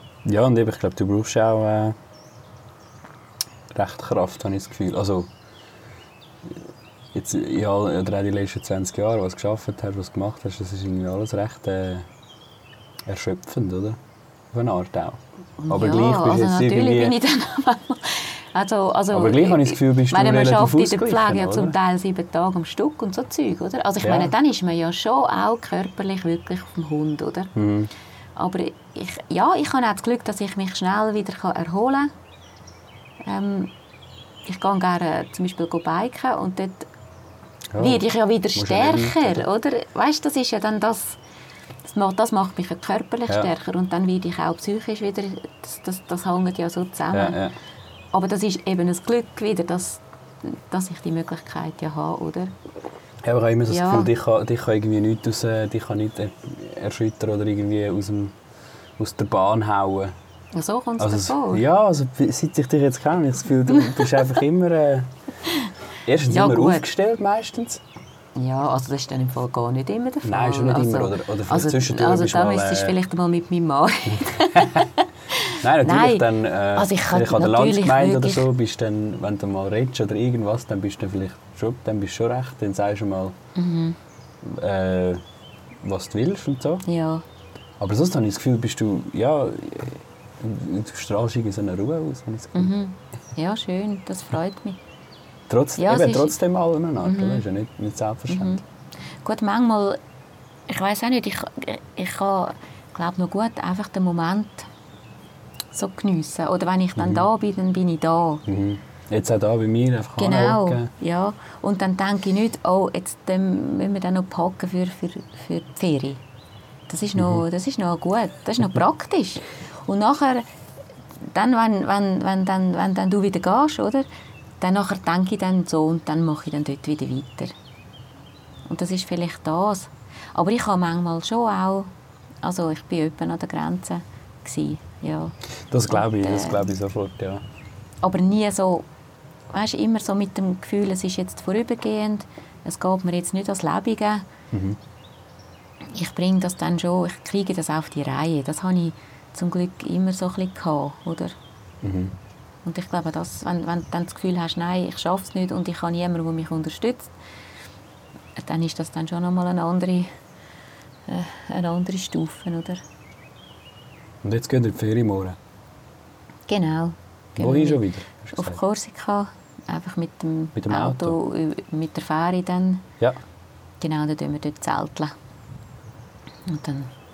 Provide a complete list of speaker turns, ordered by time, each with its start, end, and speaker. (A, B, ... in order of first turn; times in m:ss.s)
0:00.2-0:02.0 A
0:03.7-0:05.3 A
0:06.4-0:12.1 A
0:13.0-0:14.0 A
0:14.5-0:17.1 A
0:15.6-0:27.5 B
0:19.1-0:21.7 A
0:24.0-0:24.3 A
0:27.5-0:27.9 A
0:28.4-0:32.1 B
0:33.2-0:33.7 B
0:34.4-0:36.9 B
0:37.7-0:38.0 A
0:37.8-0:41.2 B
0:38.6-0:39.4 A
0:41.8-0:47.4 B
0:47.1-0:47.5 A
0:48.1-0:52.5 B
0:53.2-0:58.3 A
0:53.7-0:54.1 B
0:59.0-1:00.1 A
1:00.5-1:01.6 B
1:01.0-1:05.1 A
1:03.7-1:04.0 B
1:06.0-1:07.8 A
1:06.3-1:06.8 B
1:08.3-1:18.5 B
1:10.2-1:12.9 A
1:14.1-1:14.8 A
1:15.6-1:23.3 A
1:23.5-1:24.0 B
1:24.4-1:25.2 A
1:25.8-1:26.8 A
1:26.8-1:27.2 B
1:27.8-1:32.7 A
1:32.5-1:34.8 B
1:35.5-1:38.6 A
1:35.8-1:36.4 B
1:37.0-1:37.4 B
1:38.3-1:38.6 B
1:39.2-1:40.0 B
1:40.7-1:44.7 B
1:45.7-1:48.4 B
1:47.0-1:47.3 A
1:48.5-1:50.9 A
1:50.2-1:56.2 B
1:56.9-2:00.4 B
1:57.2-1:57.4 A
2:01.2-2:04.0 B
2:04.6-2:07.5 B
2:08.7-2:11.9 B
2:12.4-2:16.7 B
2:15.7-2:17.4 A
2:18.0-2:18.9 B
2:19.5-2:24.3 B
2:24.5-2:24.8 A
2:25.9-2:31.4 B
2:31.8-2:32.1 A
2:32.6-2:37.1 B
2:38.4-2:40.1 B
2:41.1-2:42.8 B
2:44.2-2:45.4 A
2:46.5-2:47.8 B
2:47.4-2:48.6 A
2:48.3-2:52.9 B
2:50.6-2:51.2 A
2:53.8-2:55.1 B
2:56.5-2:56.9 B